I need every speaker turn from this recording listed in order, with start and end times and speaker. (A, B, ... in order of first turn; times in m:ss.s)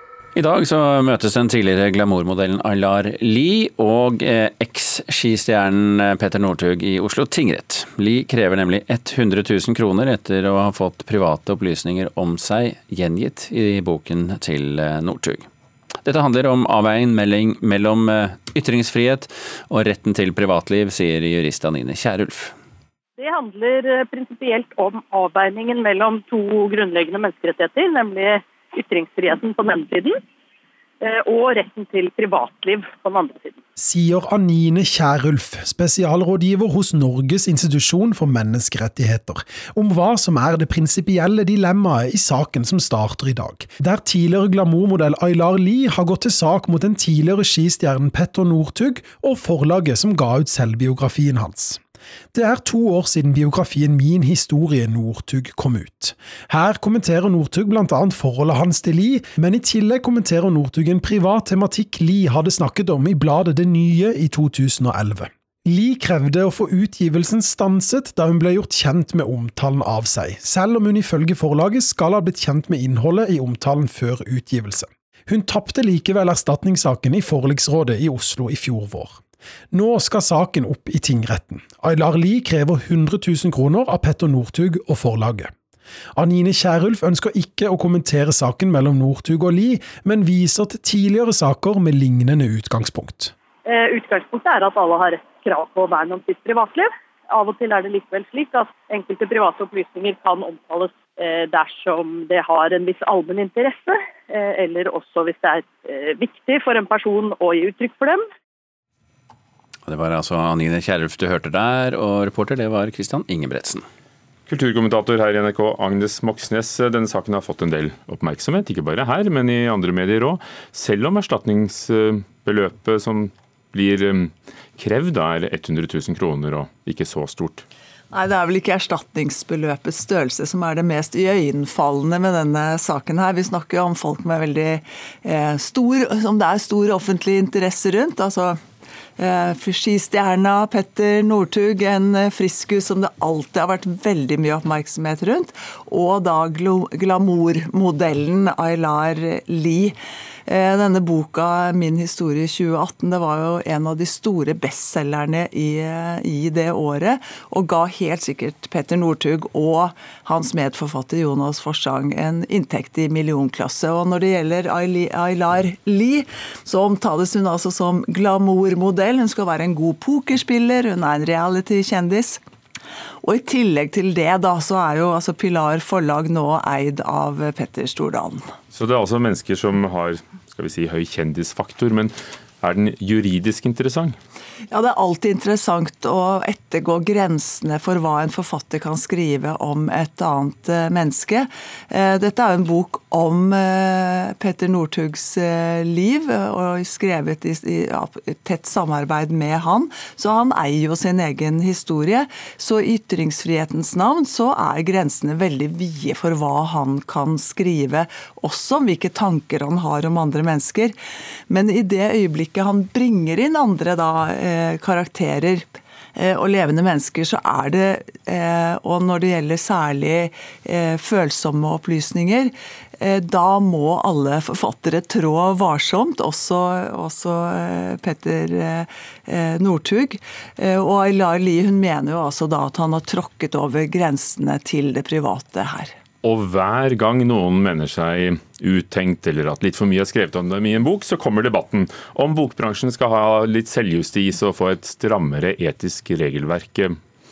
0:00.4-0:15.5 A
0:16.0-0:22.5 A
0:23.2-0:30.2 B
0:31.0-0:33.6 B
0:33.8-0:51.8 C
0:52.3-1:19.2 C
1:19.7-1:25.5 C
1:26.2-1:33.3 C
1:33.6-1:48.2 B
1:49.8-1:53.8 A
1:54.5-2:07.6 D
2:08.1-2:18.6 E
2:19.2-2:29.9 E
2:30.5-2:52.4 E
2:53.2-2:58.4 E
2:58.7-3:04.2 D
3:04.7-3:30.9 E
3:31.5-3:55.9 E
3:56.2-4:07.0 D